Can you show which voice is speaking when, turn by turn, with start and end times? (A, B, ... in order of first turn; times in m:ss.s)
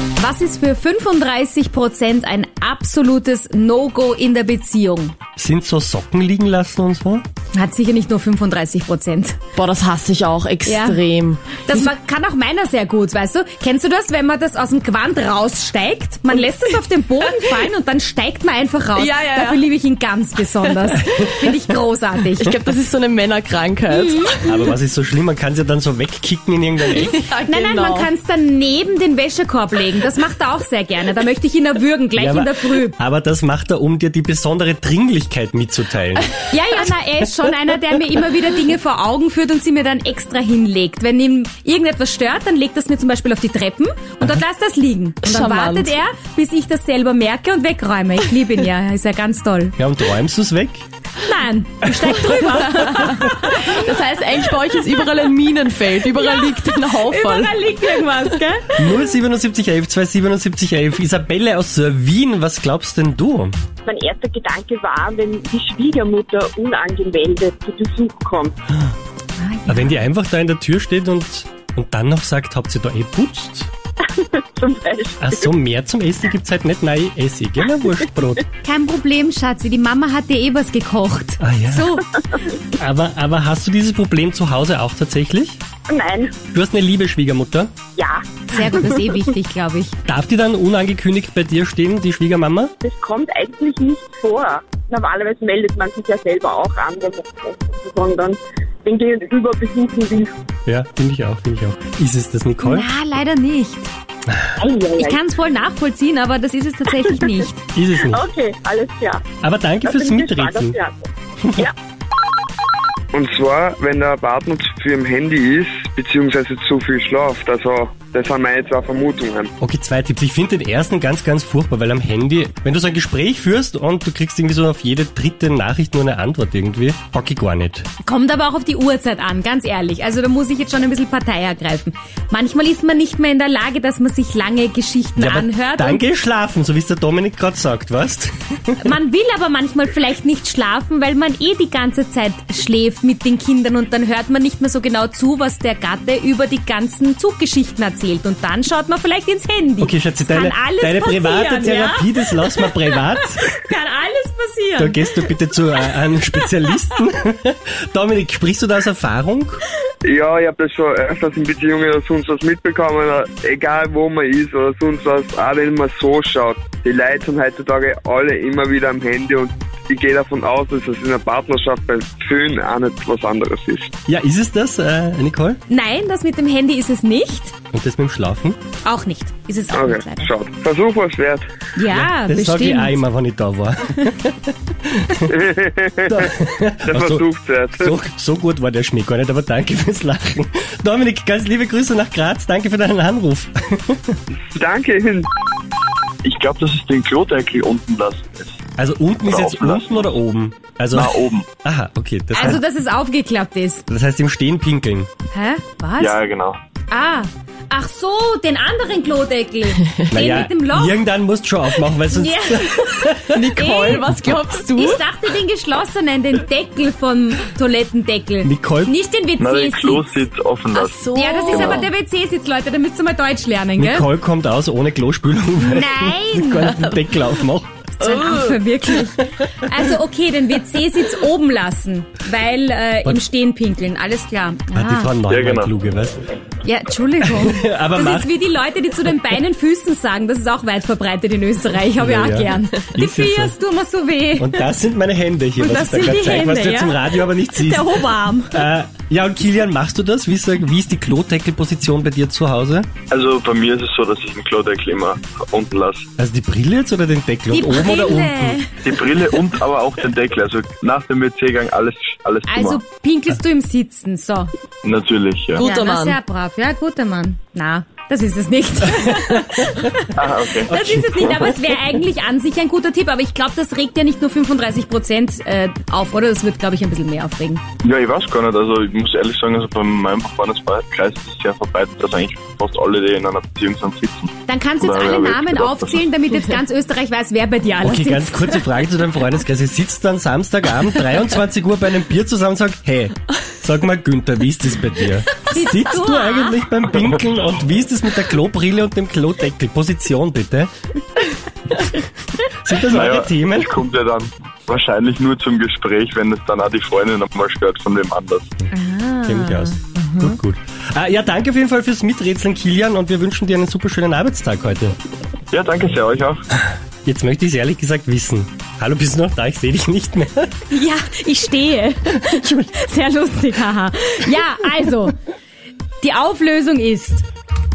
0:00.2-0:05.2 A
0:05.4-0:07.2 B
0:07.5-0:09.4 A
0:09.6-0:11.6 C
0:10.7-0:22.6 A
0:19.0-0:19.6 C
0:22.4-0:24.4 C
0:23.9-0:24.7 A
0:24.5-0:27.2 B
0:27.0-0:28.1 C
0:27.5-0:33.0 A
0:32.2-0:36.8 B
0:36.5-0:49.8 A
0:45.2-0:46.0 C
0:49.8-0:50.8 B
0:51.2-0:53.9 A
0:53.6-0:57.6 C
0:56.1-0:58.9 A
0:58.8-1:03.6 B
1:03.9-1:08.6 D
1:09.4-1:10.0 A
1:09.7-1:13.7 B
1:14.0-1:15.5 D
1:15.2-1:18.5 B
1:18.6-1:22.4 A
1:21.4-1:22.0 B
1:22.7-1:25.6 B
1:25.9-1:26.4 D
1:26.5-1:27.7 B
1:28.0-1:29.0 D
1:28.5-1:30.0 A
1:30.0-1:32.7 B
1:32.8-1:40.4 D
1:40.7-1:42.9 B
1:42.6-1:43.9 A
1:44.6-1:45.2 D
1:45.0-1:47.6 A
1:47.1-1:47.4 D
1:47.7-1:48.3 B
1:48.0-1:49.3 D
1:49.4-1:50.8 B
1:49.8-1:51.7 D
1:53.1-1:59.5 E
1:59.6-2:07.9 B
2:08.0-2:16.0 A
2:15.2-2:18.8 B
2:18.8-2:35.3 A
2:29.8-2:33.5 B
2:34.8-2:39.6 B
2:40.0-2:53.9 E
2:54.1-2:55.6 B
2:55.7-2:57.6 A
2:57.7-2:58.6 B
2:58.8-3:00.3 A
2:59.7-3:01.5 E
3:01.8-3:03.0 A
3:01.9-3:05.2 B
3:05.3-3:06.3 E
3:06.1-3:07.2 B
3:06.9-3:08.0 E
3:07.8-3:14.2 B
3:14.4-3:15.3 E
3:16.2-3:18.6 F
3:18.8-3:22.6 B
3:19.3-3:20.2 F
3:20.9-3:21.5 F
3:22.3-3:23.8 A
3:23.9-3:25.1 B
3:25.3-3:26.2 A
3:26.0-3:26.6 F
3:26.9-3:31.0 A
3:30.1-3:33.5 B
3:32.1-3:34.1 A
3:33.3-3:35.0 C
3:34.7-3:44.1 A
3:38.4-3:38.9 B
3:39.4-3:41.9 F
3:40.9-3:41.9 C
3:43.8-3:47.8 B
3:45.6-3:46.8 A
3:48.0-3:55.1 A
3:48.0-3:48.6 C
3:54.7-3:56.2 B
3:55.3-3:55.7 F
3:56.6-4:04.7 A
3:57.2-3:58.3 B
4:02.0-4:03.6 B
4:04.4-4:12.9 B
4:05.6-4:08.7 A
4:13.1-4:16.1 F
4:16.2-4:18.6 B
4:17.5-4:18.7 A
4:18.8-4:22.8 F
4:22.5-4:24.5 A
4:24.8-4:25.7 F
4:25.6-4:26.2 C
4:25.6-4:37.6 A
4:29.1-4:29.8 B
4:30.2-4:30.7 F
4:30.7-4:31.6 B
4:37.8-4:46.0 F
4:44.5-4:48.7 A
4:47.8-5:00.7 B
4:55.5-4:56.6 A
5:02.5-5:03.8 B
5:02.9-5:08.5 F
5:08.7-5:10.4 A
5:09.2-5:15.0 B
5:15.5-5:16.4 F
5:17.0-5:20.6 B
5:20.7-5:25.2 A
5:26.0-5:27.3 A